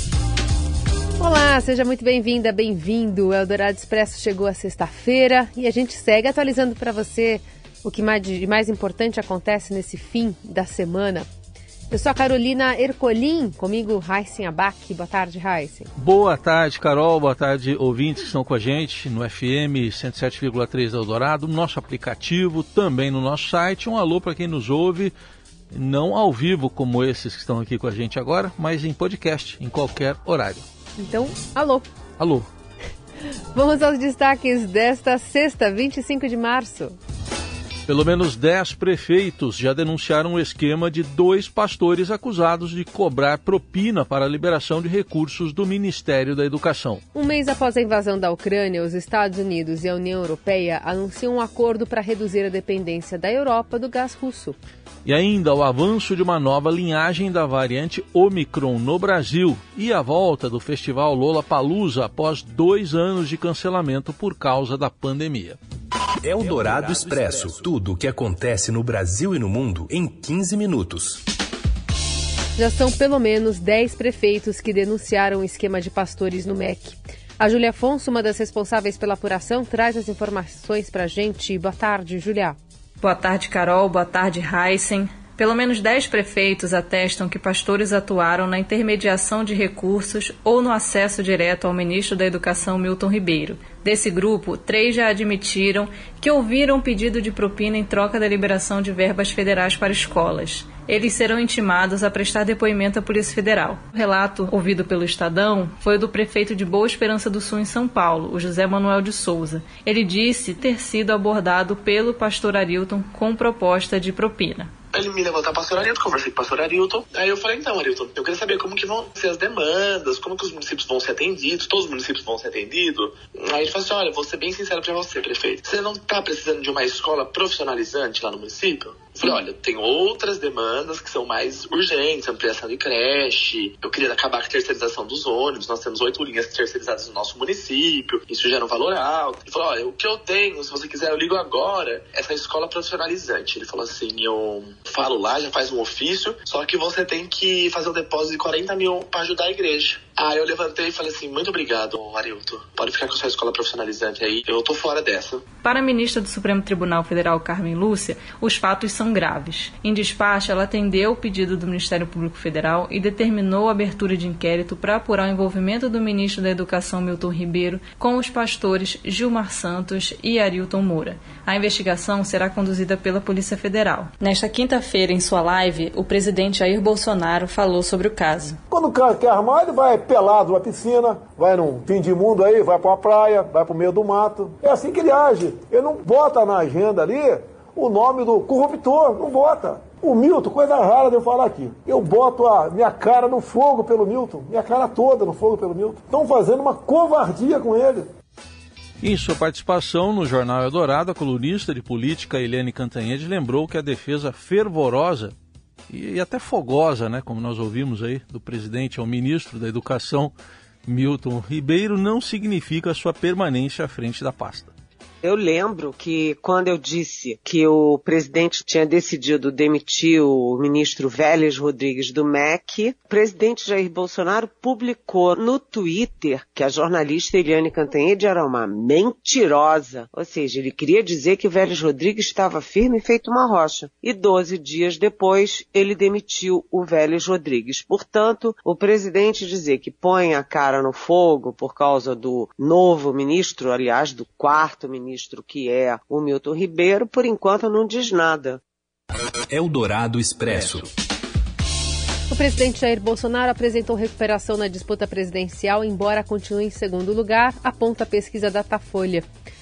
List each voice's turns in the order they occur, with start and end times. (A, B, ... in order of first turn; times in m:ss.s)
0:01.2-0:11.3 A
0:11.9-0:15.9 A
0:16.0-0:25.1 B
0:25.7-0:30.6 B
0:31.0-0:31.9 A
0:32.2-0:32.5 B
0:33.5-0:37.0 A
0:37.9-0:47.0 B
0:47.1-0:54.6 A
0:55.0-1:05.6 B
1:06.2-1:11.2 C
1:12.6-1:22.6 A
1:23.0-1:54.7 D
1:54.9-2:35.4 E
2:35.6-2:58.6 D
2:58.7-3:18.1 F
3:19.0-3:25.4 B
3:25.9-3:30.3 B
3:30.9-3:34.7 B
3:35.2-4:08.6 G
4:09.5-4:10.9 C
4:12.3-4:19.3 A